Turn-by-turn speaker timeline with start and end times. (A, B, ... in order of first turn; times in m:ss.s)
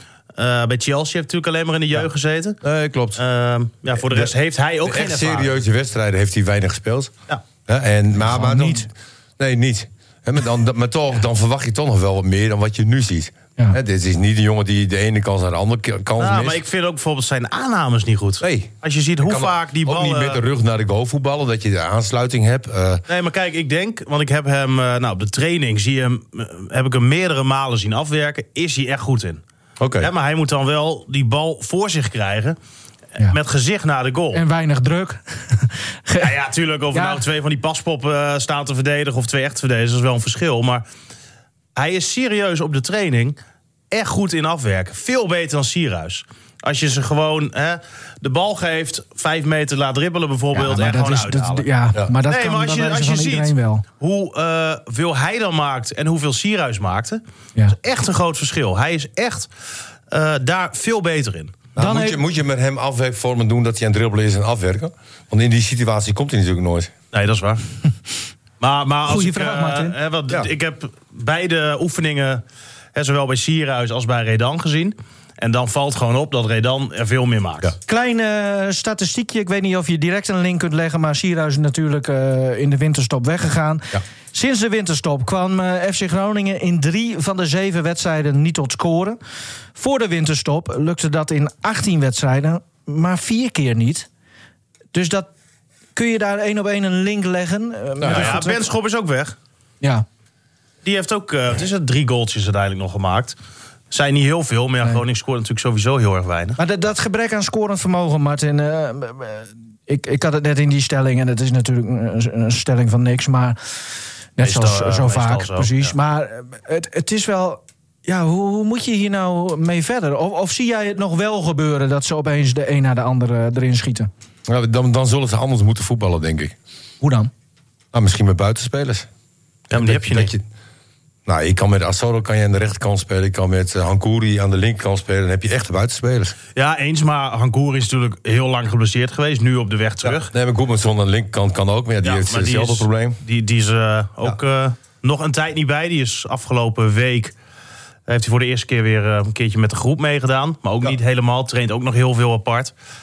0:00.4-0:02.6 A
0:02.6-0:03.2 B
0:03.2-0:05.6 A
0:04.0-0:04.3 B
0:04.8-0:07.1 B
0:07.7-0:16.6 B
0:08.2-0:08.9 C
0:16.2-0:20.4 A
0:18.4-0:23.0 B
0:23.1-0:29.4 A
0:29.8-0:30.1 B
0:30.0-0:32.6 A
0:33.2-0:34.4 A
0:34.3-0:36.3 C
0:36.2-0:40.8 A
0:36.9-0:37.2 C
0:41.7-0:43.4 A
0:43.9-0:51.7 A
0:50.5-0:53.8 C
0:52.3-0:57.2 A
0:57.7-0:59.5 A
1:00.1-1:01.6 A
1:01.8-1:02.2 C
1:01.8-1:06.9 B
1:07.1-1:07.6 A
1:08.6-1:12.4 A
1:09.1-1:10.0 C
1:12.9-1:17.7 A
1:17.9-1:29.2 C
1:29.8-1:34.1 C
1:34.9-1:35.3 C
1:35.9-1:38.7 C
1:38.0-1:38.3 B
1:38.0-1:39.4 A
1:40.8-1:43.3 A
1:43.9-1:46.6 A
1:46.6-1:53.6 C
1:54.4-2:04.1 C
1:54.4-1:55.9 A
2:04.4-2:06.5 B
2:07.0-2:07.3 C
2:07.9-2:09.1 B
2:09.7-2:10.3 A
2:09.7-2:10.4 B
2:11.2-2:16.3 B
2:16.6-2:20.3 A
2:20.0-2:23.2 B
2:22.0-2:27.3 A
2:28.1-2:32.7 A